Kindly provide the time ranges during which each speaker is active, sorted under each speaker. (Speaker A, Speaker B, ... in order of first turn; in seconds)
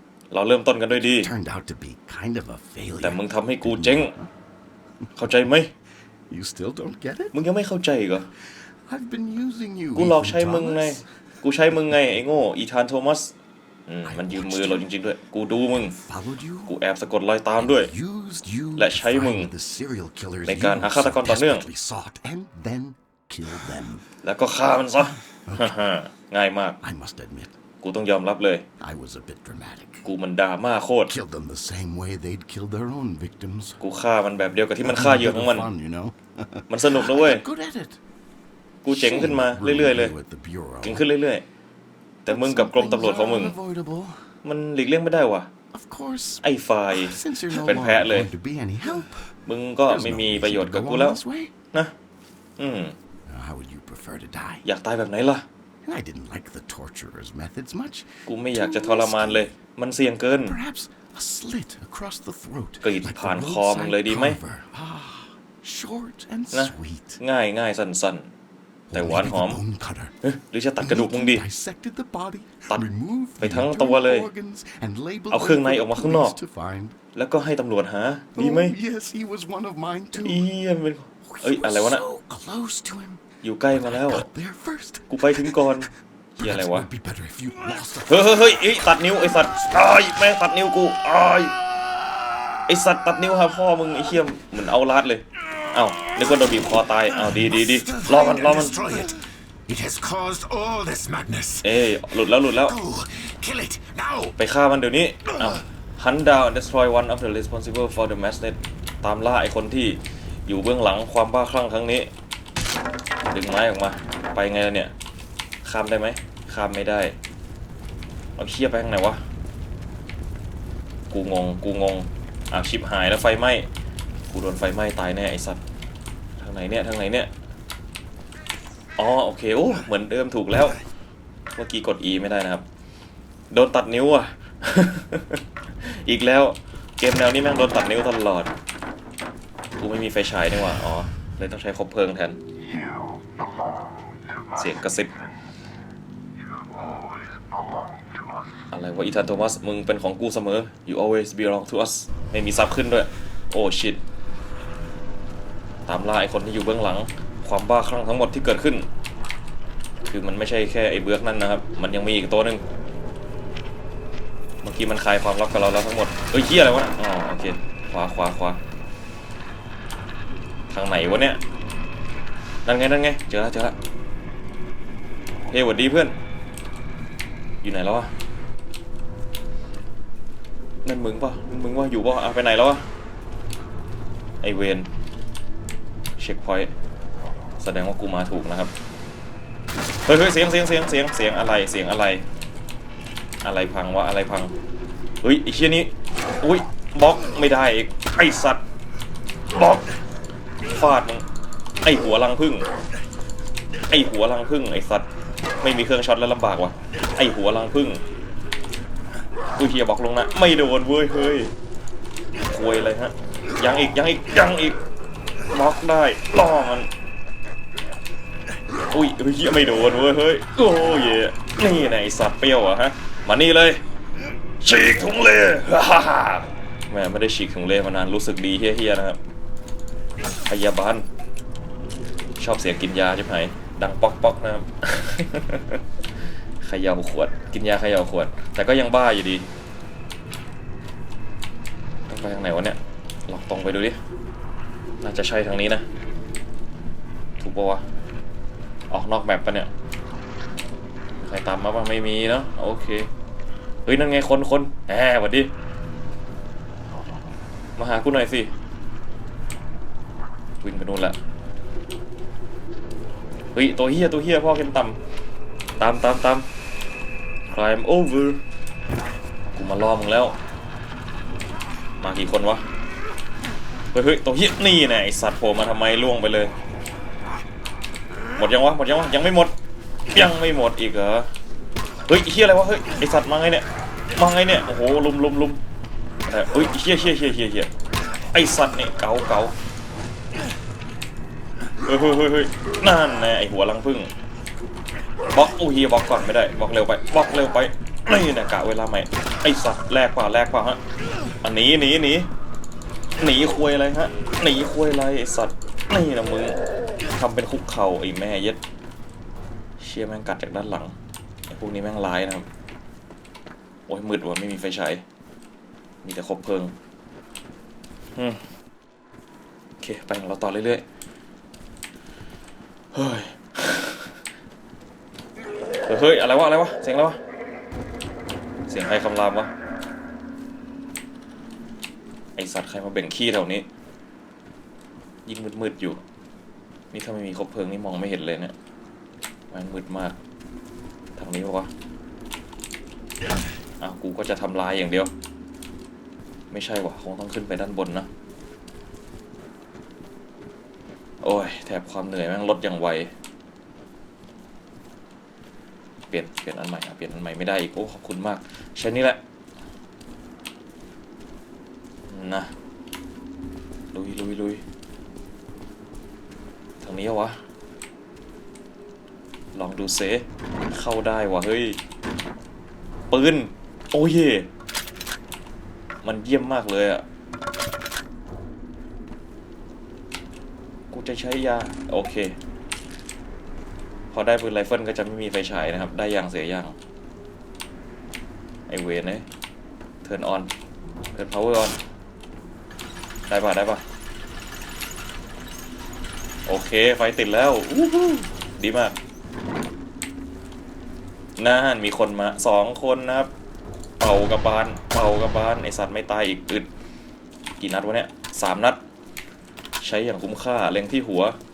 Speaker A: 0.3-1.3, 3.0-4.1, 5.2-5.7, 7.3-8.3, 9.9-13.3, 13.9-16.0, 16.7-17.9, 18.8-19.5, 20.4-21.7, 24.2-26.8, 27.8-28.6, 30.0-31.1, 33.8-35.7, 36.7-37.4, 38.8-40.1, 40.8-41.4, 42.2-43.5, 44.4-45.5, 46.4-48.3, 49.5-51.2, 52.6-52.9, 54.6-55.5, 58.3-60.6, 62.8-64.4, 66.5-68.3, 68.9-69.6, 70.2-71.5, 73.4-74.3, 75.3-76.4, 77.2-78.8, 80.2-82.0, 83.4-84.3, 85.1-86.9, 88.1-91.6, 92.7-98.8, 101.6-102.8, 104.4-112.1, 113.3-114.9, 115.6-117.2, 118.4-119.2, 121.1-123.7, 124.3-125.6, 126.4-127.3, 129.0-130.8, 131.6-132.6, 133.5-138.5, 139.8-142.4, 144.6-145.1, 148.7-154.0, 155.9-158.9, 160.1-162.6, 164.6-168.6, 170.7-171.4, 172.7-173.8, 175.5-176.2, 177.6-178.1, 180.8-182.8, 184.4-184.9, 186.2-186.7, 187.6-188.7, 190.1-192.2, 193.4-194.5, 195.2-198.6, 199.5-199.9, 200.7-201.2, 201.8-202.7, 203.9-205.1, 205.6-208.0, 209.6-211.5, 212.5-214.8, 215.5-216.9, 218.9-223.8, 224.6-229.2, 230.5-231.1, 232.4-235.8, 236.6-239.5, 242.1-244.0, 245.0-245.8, 247.4-247.8, 248.9-249.7, 251.2-253.1, 253.9-255.5, 257.8-258.5, 260.6-261.2, 263.5-265.0, 265.8-266.5, 267.5-268.4, 269.5-270.4, 272.0-272.6, 273.9-276.5, 278.4-279.5, 280.1-281.3, 282.1-285.6, 286.3-287.7, 288.3-289.5, 291.9-294.1, 295.3-300.8, 301.4-302.3, 303.2-306.6, 307.1-308.6, 309.8-310.9, 311.5-312.5, 313.9-315.0, 316.0-316.7, 318.2-318.4, 319.8-320.8, 322.9-324.1, 325.9-327.2, 328.7-329.5, 332.4-333.7, 335.3-336.0, 336.9-338.5, 339.5-340.2, 341.2-341.7, 343.8-345.1, 346.5-348.1, 351.2-353.1, 356.1-359.2, 362.1-362.5, 363.9-364.6, 366.8-367.4, 369.5-371.8, 373.1-374.5, 376.0-377.0, 380.9-382.4, 384.1-386.8, 388.7-389.2, 390.0-390.5, 391.1-391.8, 393.3-393.8, 396.5-399.0, 401.4-403.3, 404.0-406.7, 407.6-408.8, 409.8-411.4
Speaker B: 1.1-4.3, 6.3-7.4, 8.4-11.1, 14.1-14.9, 15.8-16.8, 17.6-24.1, 25.5-25.8, 26.8-27.5, 28.8-30.1, 31.1-33.8, 34.8-38.0, 38.9-41.1, 42.3-44.3, 45.7-51.5, 53.3-54.7, 55.9-59.5, 60.4-67.2, 68.9-70.2, 70.8-77.0, 78.3-80.5, 81.2-85.9, 86.4-89.0
Speaker C: 97.2-101.8, 102.4-104.3